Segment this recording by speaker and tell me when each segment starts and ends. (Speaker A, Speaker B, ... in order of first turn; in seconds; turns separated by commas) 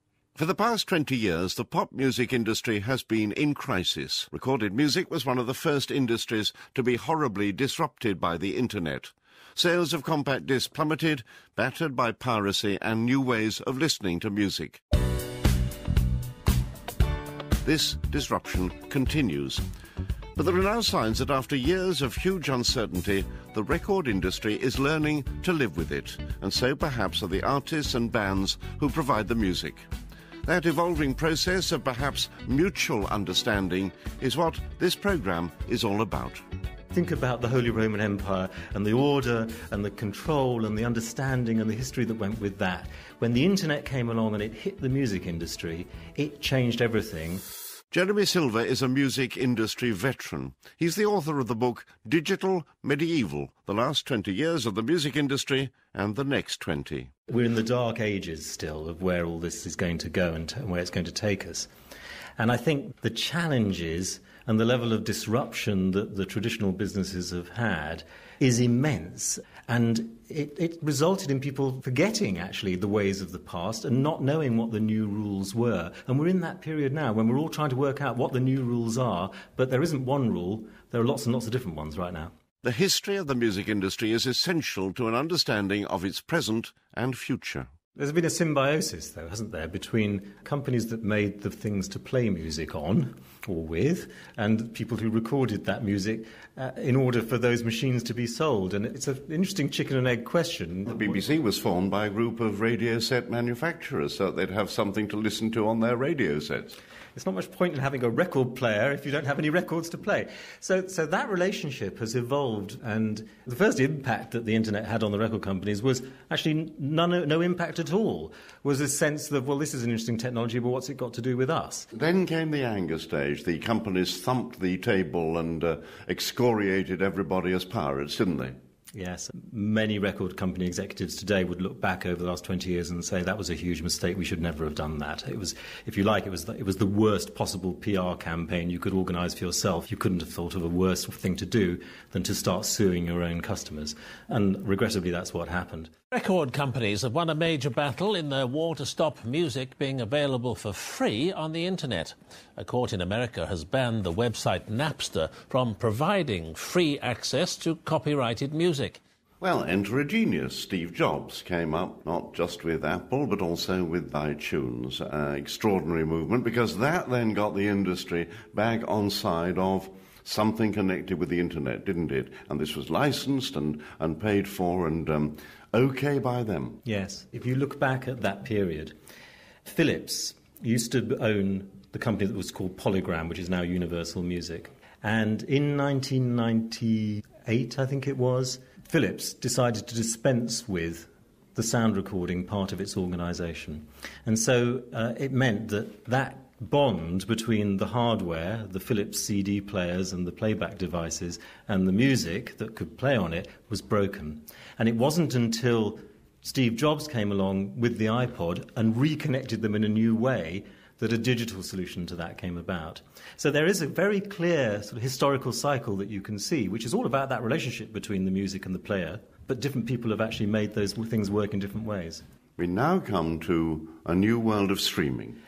Speaker A: 0.4-14.8, Speaker A: 17.6-19.6, Speaker A: 20.4-29.9, Speaker A: 30.5-36.4, Speaker B: 36.9-47.4, Speaker A: 47.9-57.1, Speaker B: 57.3-61.7, Speaker B: 62.4-82.3, Speaker A: 82.6-87.7, Speaker B: 88.0-101.1, Speaker A: 100.9-106.8, Speaker B: 107.2-121.9, Speaker A: 121.9-128.6, Speaker B: 128.9-145.9, Speaker C: 146.1-159.0, Speaker A: 159.4-176.8, Speaker B: 176.8-178.9, Speaker B: 179.6-222.2, Speaker A: 222.6-225.4